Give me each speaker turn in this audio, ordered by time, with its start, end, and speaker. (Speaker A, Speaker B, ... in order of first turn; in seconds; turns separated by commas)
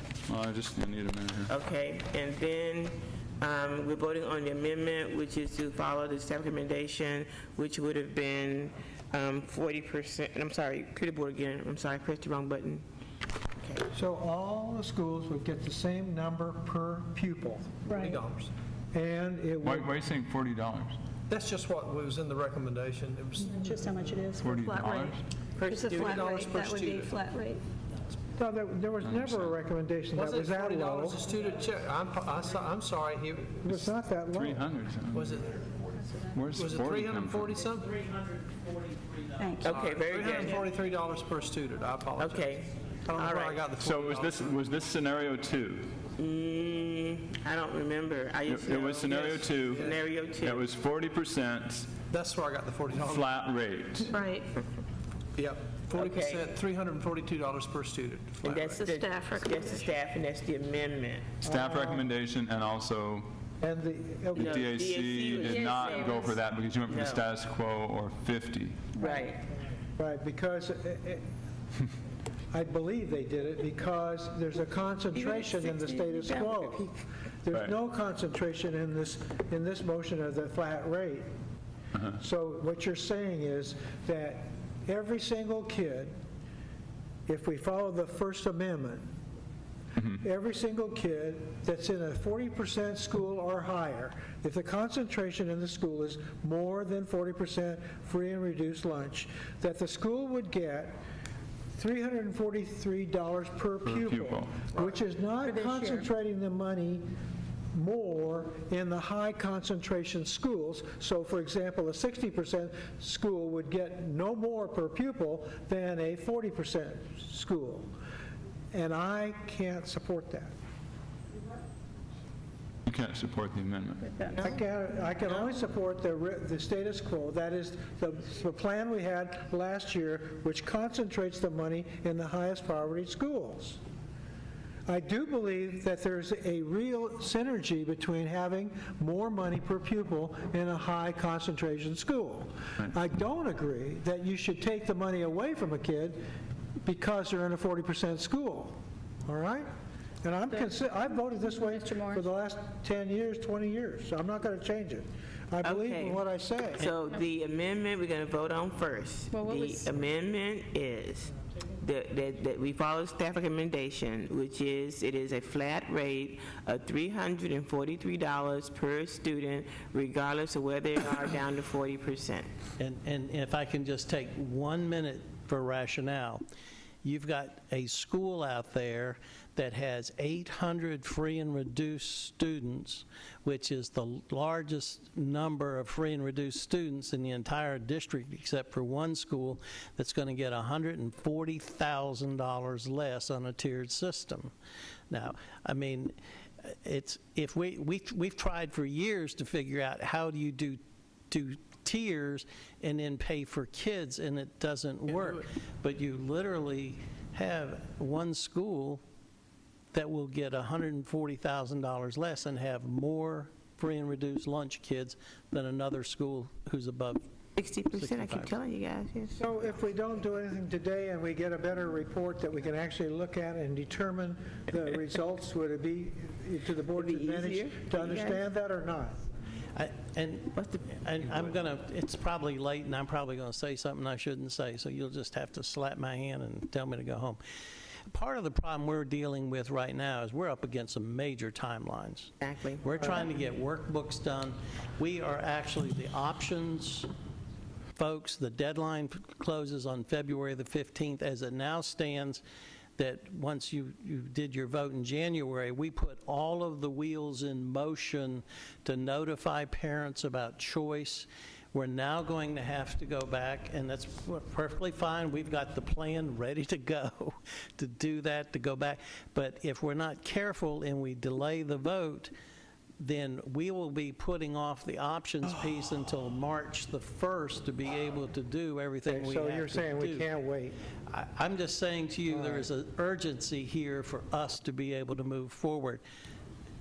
Speaker A: 0.3-1.5, Speaker B: 1.5-12.8, Speaker B: 13.6-13.8, Speaker C: 13.9-17.8, Speaker D: 17.9-18.2, Speaker E: 17.9-18.5, Speaker C: 18.9-19.9, Speaker A: 19.6-21.0, Speaker E: 21.3-23.7, Speaker D: 23.5-27.6, Speaker A: 24.4-25.2, Speaker B: 25.6-26.6, Speaker E: 25.9-27.2, Speaker C: 28.4-31.2, Speaker A: 29.0-29.5, Speaker E: 30.2-33.6, Speaker C: 33.6-34.7, Speaker A: 34.3-35.4, Speaker E: 35.1-35.6, Speaker A: 36.3-37.5, Speaker E: 36.5-37.9, Speaker F: 37.8-39.9, Speaker D: 39.4-39.7, Speaker B: 39.6-40.7, Speaker E: 39.7-44.5, Speaker B: 42.1-43.6, Speaker A: 43.8-46.0, Speaker B: 46.2-50.6, Speaker A: 48.5-52.0, Speaker E: 52.1-53.3, Speaker A: 53.0-54.2, Speaker D: 54.1-54.5, Speaker E: 55.4-58.9, Speaker B: 55.9-56.5, Speaker B: 58.4-61.3, Speaker D: 58.8-60.0, Speaker A: 61.4-63.3, Speaker C: 61.5-62.0, Speaker C: 63.6-64.6, Speaker A: 64.3-68.8, Speaker B: 64.4-66.3, Speaker D: 65.5-66.4, Speaker B: 66.9-67.2, Speaker D: 69.0-69.3, Speaker B: 69.0-69.4, Speaker C: 70.0-71.2, Speaker C: 72.5-76.9, Speaker D: 75.1-76.9, Speaker C: 77.4-81.3, Speaker C: 82.1-86.1, Speaker C: 87.3-89.1, Speaker C: 90.1-101.0, Speaker C: 101.7-107.0, Speaker A: 103.8-104.7, Speaker D: 105.4-106.1, Speaker C: 107.7-117.9, Speaker C: 118.7-120.5, Speaker A: 122.9-124.0, Speaker B: 124.1-124.5, Speaker C: 124.4-133.8, Speaker C: 134.9-146.2, Speaker C: 146.8-149.7, Speaker C: 150.2-156.9, Speaker D: 151.6-152.2, Speaker B: 155.6-156.2, Speaker B: 156.8-172.5, Speaker D: 159.3-159.9, Speaker F: 172.8-176.4, Speaker F: 177.0-194.5, Speaker F: 195.1-209.0, Speaker F: 209.9-217.2, Speaker B: 217.6-219.4, Speaker F: 217.9-218.5, Speaker C: 219.4-229.2, Speaker B: 227.0-228.4, Speaker F: 229.8-237.4, Speaker B: 230.6-231.0, Speaker F: 238.1-247.1, Speaker B: 242.4-243.1, Speaker F: 248.0-252.4, Speaker F: 253.0-272.3, Speaker F: 273.0-280.3, Speaker C: 279.1-280.8, Speaker F: 281.1-286.0, Speaker C: 282.3-282.6